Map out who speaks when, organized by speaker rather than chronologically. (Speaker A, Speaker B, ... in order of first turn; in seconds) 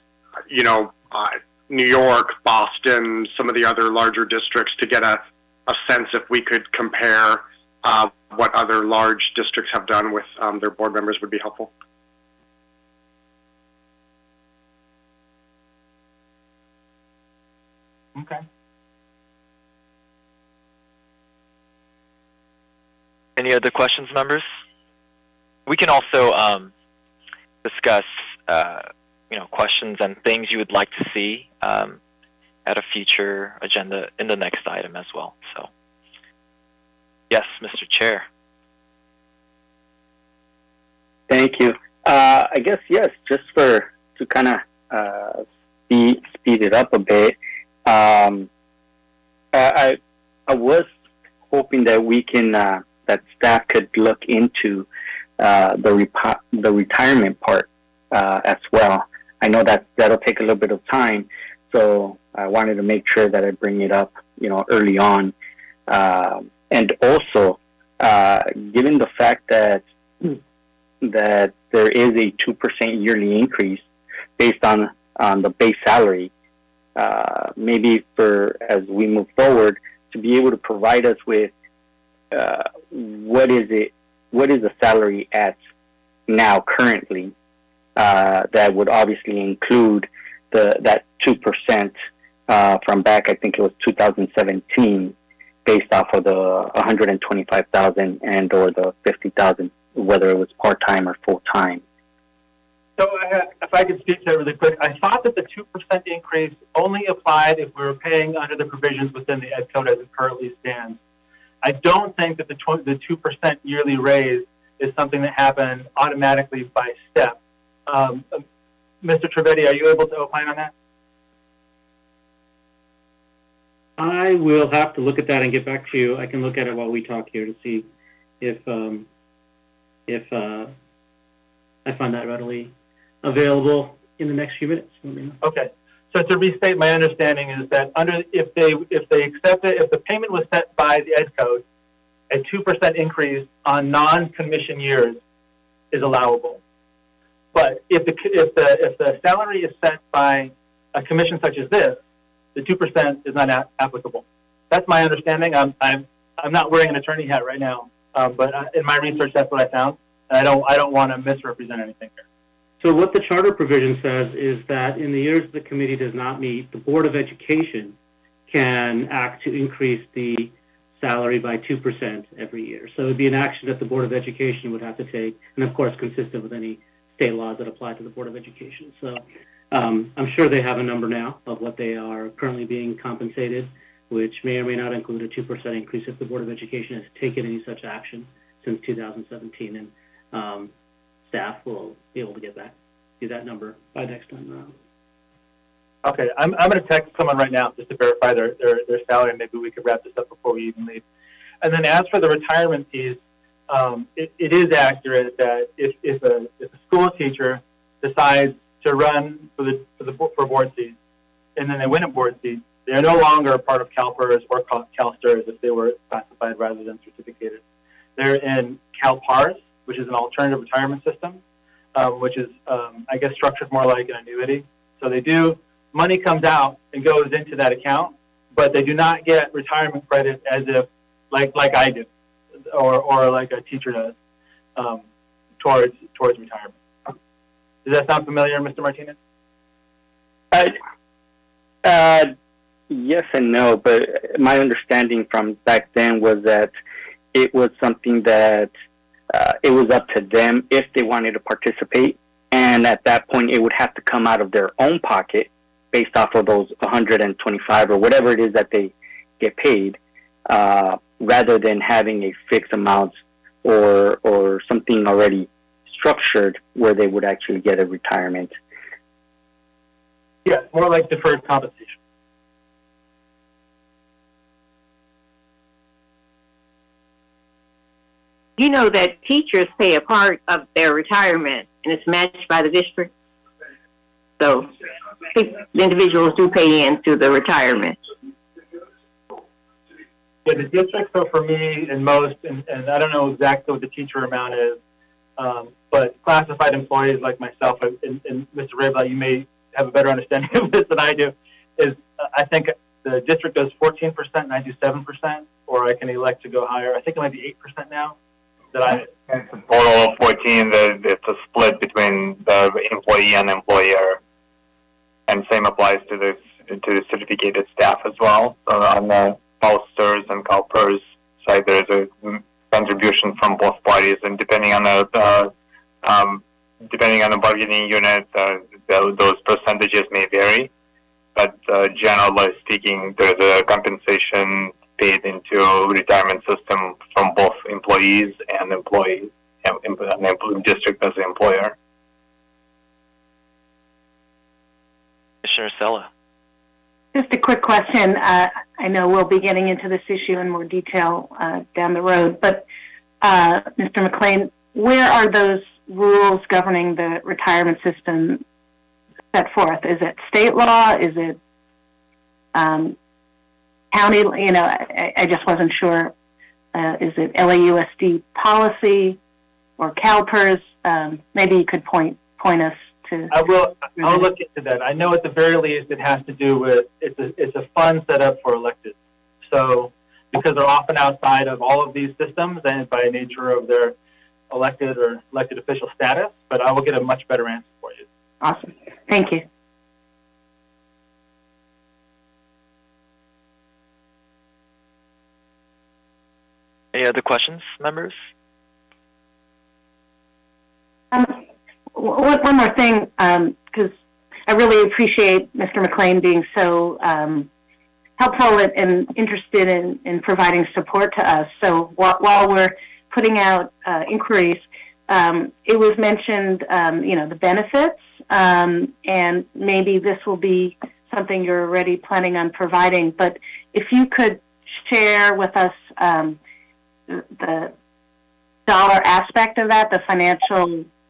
Speaker A: 0.5-11.7
Speaker B: 18.1-18.4, 103.0-111.0, 111.6-118.5, 119.0-120.7, 135.4-141.6, 142.3-145.2, 145.9-146.6, 147.5-152.0, 152.6-162.2, 196.0-201.0, 201.6-210.9, 211.6-217.6, 218.2-221.4, 221.9-232.1, 232.7-234.2, 234.8-235.0, 235.6-236.8, 237.8-239.2, 270.4-272.0, 290.4-294.8, 295.4-308.2, 308.7-309.1, 373.3-378.9, 379.5-383.9, 384.5-388.1
Speaker C: 23.4-24.4, 25.7-26.7, 27.6-32.0, 32.7-35.7, 37.3-38.3, 345.4-346.1, 396.9-398.2
Speaker D: 41.3-48.5, 49.5-50.9, 51.5-54.9, 55.4-65.3, 65.9-70.4, 71.0-73.8, 74.4-76.3, 77.0-81.5, 82.3-85.6, 86.3-87.3, 88.0-92.0, 92.5-95.2, 95.7-101.8, 241.8-242.3, 242.9-246.7, 247.3-248.7, 249.3-260.0, 260.5-268.5
Speaker E: 124.0-127.9, 128.4-129.1, 130.1-130.7, 131.8-132.7, 133.2-135.4, 162.8-168.0, 168.5-190.7, 191.3-194.8
Speaker F: 278.6-283.1, 284.4-284.7, 285.3-288.0
Speaker G: 309.3-314.2, 315.3-325.5, 326.0-330.7, 331.4-341.8
Speaker H: 347.1-352.7, 353.2-358.4, 359.3-361.4, 362.6-363.0, 363.9-366.1, 366.7-369.2, 369.8-373.4, 374.0-374.2, 388.4-389.4, 401.1-403.9, 404.5-407.5, 408.2-426.4, 427.1-427.7, 428.7-430.9